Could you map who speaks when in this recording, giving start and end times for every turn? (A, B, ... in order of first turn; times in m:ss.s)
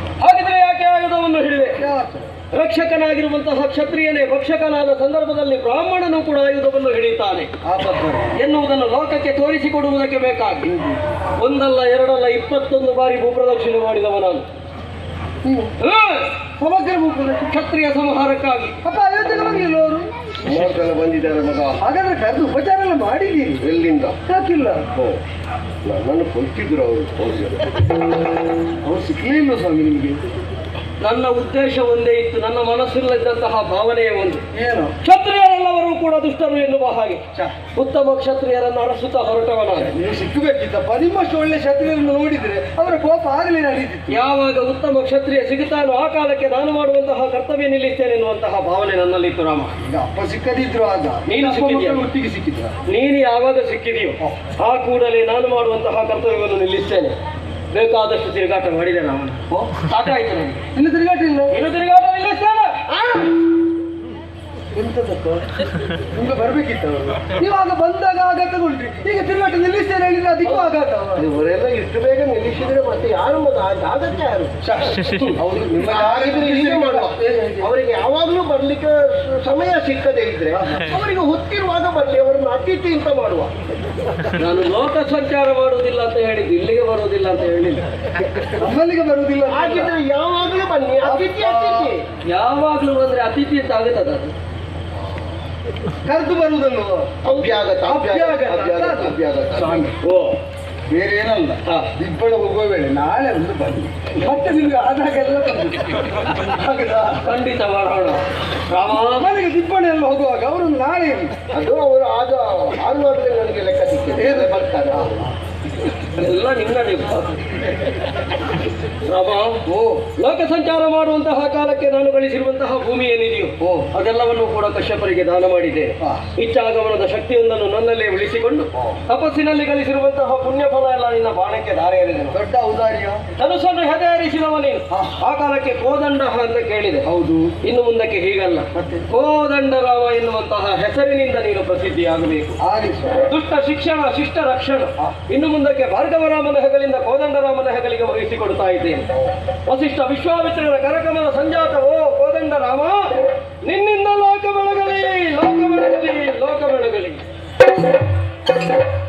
0:00.2-0:01.8 A
0:01.8-0:02.3 B
0:02.5-0:07.5 A
0:07.6-0:08.4 B
0:08.4-0:10.8 A
0:10.6-0:11.0 B
0:11.4-0:14.5 A
0:15.4-0:15.7 B
0:15.8-0:16.4 A
0:16.6-0:17.6 B
0:17.4-0:18.8 A
0:18.8-0:20.8 B
0:20.4-0:21.8 C
0:21.8-0:23.7 B
0:23.6-0:24.2 C
0:24.3-0:24.8 B
0:24.9-0:25.2 C
0:25.8-0:27.7 C
0:28.8-0:30.2 B
0:31.0-0:34.4 A
0:34.5-0:35.0 B
0:35.0-0:37.2 A
0:37.8-0:39.9 A
0:39.7-0:44.1 B
0:44.1-0:49.7 A
0:49.8-0:52.7 B
0:51.3-0:52.0 A
0:52.9-0:57.2 A
0:57.7-1:00.6 A
1:00.8-1:01.6 B
1:01.5-1:02.8 A
1:02.9-1:03.3 C
1:04.8-1:05.4 B
1:06.1-1:11.3 B
1:11.2-1:14.6 C
1:14.6-1:17.7 B
1:15.8-1:23.6 C
1:20.5-1:20.9 B
1:24.4-1:27.8 A
1:28.6-1:30.0 B
1:29.5-1:32.0 C
1:31.0-1:31.9 B
1:32.2-1:34.3 A
1:36.1-1:40.0 B
1:37.2-1:39.9 C
1:40.0-1:40.4 A
1:40.9-1:47.3 B
1:47.2-1:49.3 A
1:48.9-1:51.3 B
1:51.5-1:55.2 C
1:54.2-1:55.3 B
1:56.2-1:57.4 A
1:59.0-1:59.6 A
1:59.7-2:00.1 B
2:00.2-2:12.4 A
2:03.6-2:03.9 B
2:06.0-2:06.2 B
2:12.3-2:13.2 B
2:13.4-2:17.1 A
2:14.9-2:15.2 B
2:17.0-2:17.5 B
2:17.6-2:22.6 A
2:18.7-2:19.1 B
2:22.6-2:23.3 B
2:23.2-2:29.1 A
2:29.7-2:37.2 A